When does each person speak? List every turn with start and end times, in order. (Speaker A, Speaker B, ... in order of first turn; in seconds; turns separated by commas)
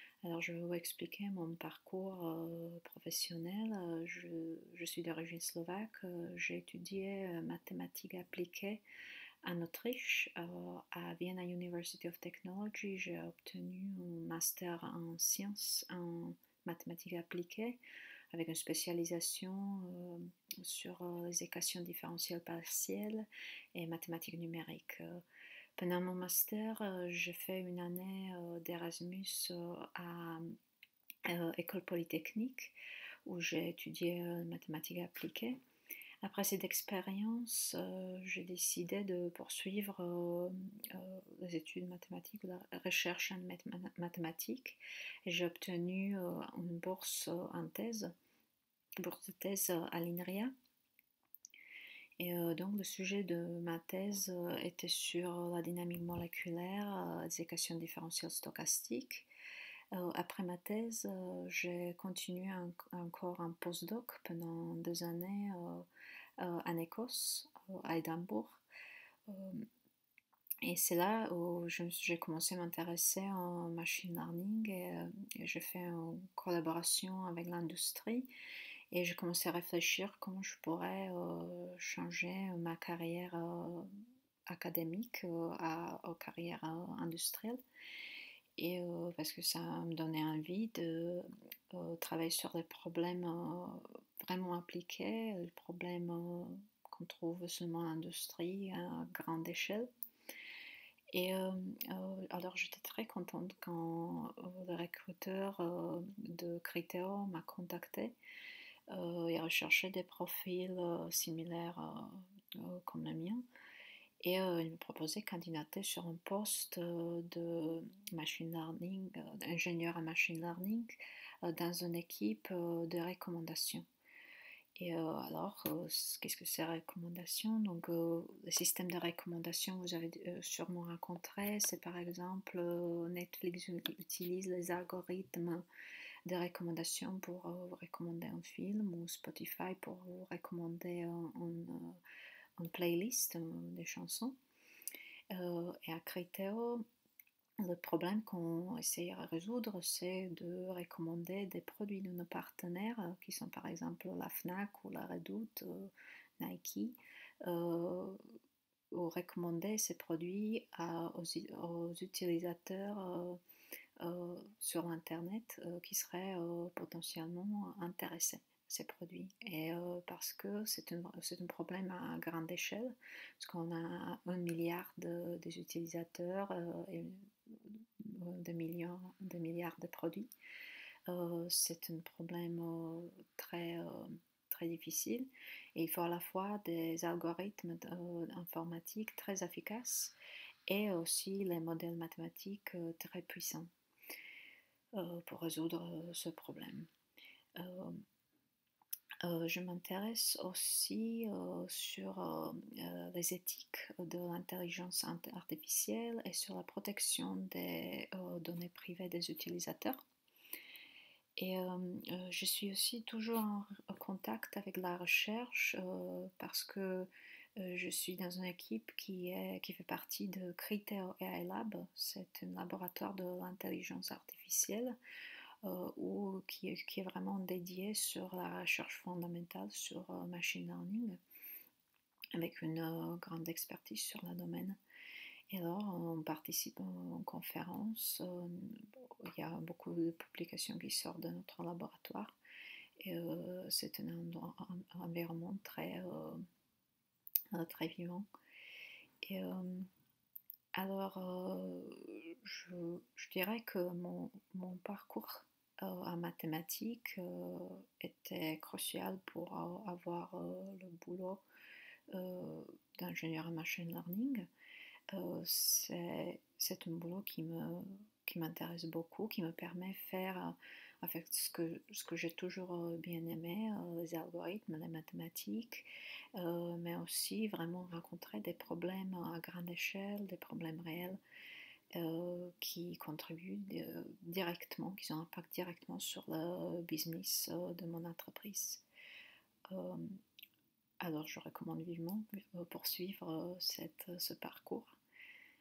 Speaker A: 0.2-8.8, Speaker A: 9.4-17.8, Speaker A: 18.3-25.2, Speaker A: 25.8-30.6, Speaker A: 31.3-35.6, Speaker A: 36.2-48.1, Speaker A: 49.0-50.5, Speaker A: 52.2-59.3, Speaker A: 59.9-65.9, Speaker A: 66.4-68.6, Speaker A: 69.3-69.7, Speaker A: 70.6-78.3, Speaker A: 78.9-83.9, Speaker A: 84.5-87.6, Speaker A: 88.6-99.9, Speaker A: 101.1-108.2, Speaker A: 108.9-113.4, Speaker A: 114.2-123.9, Speaker A: 124.8-135.7, Speaker A: 136.3-142.0, Speaker A: 142.6-144.4, Speaker A: 145.3-146.9, Speaker A: 147.6-158.2, Speaker A: 158.9-163.4, Speaker A: 164.0-180.3, Speaker A: 181.1-190.2, Speaker A: 190.7-193.7, Speaker A: 194.9-196.9, Speaker A: 197.6-198.0, Speaker A: 199.2-210.0, Speaker A: 211.4-225.0, Speaker A: 225.6-231.2, Speaker A: 232.3-234.8, Speaker A: 235.5-242.3, Speaker A: 243.0-246.4, Speaker A: 247.5-248.3, Speaker A: 249.2-249.9, Speaker A: 250.7-261.4, Speaker A: 262.1-264.5, Speaker A: 265.1-281.2, Speaker A: 281.9-288.8, Speaker A: 289.7-290.2, Speaker A: 291.0-295.0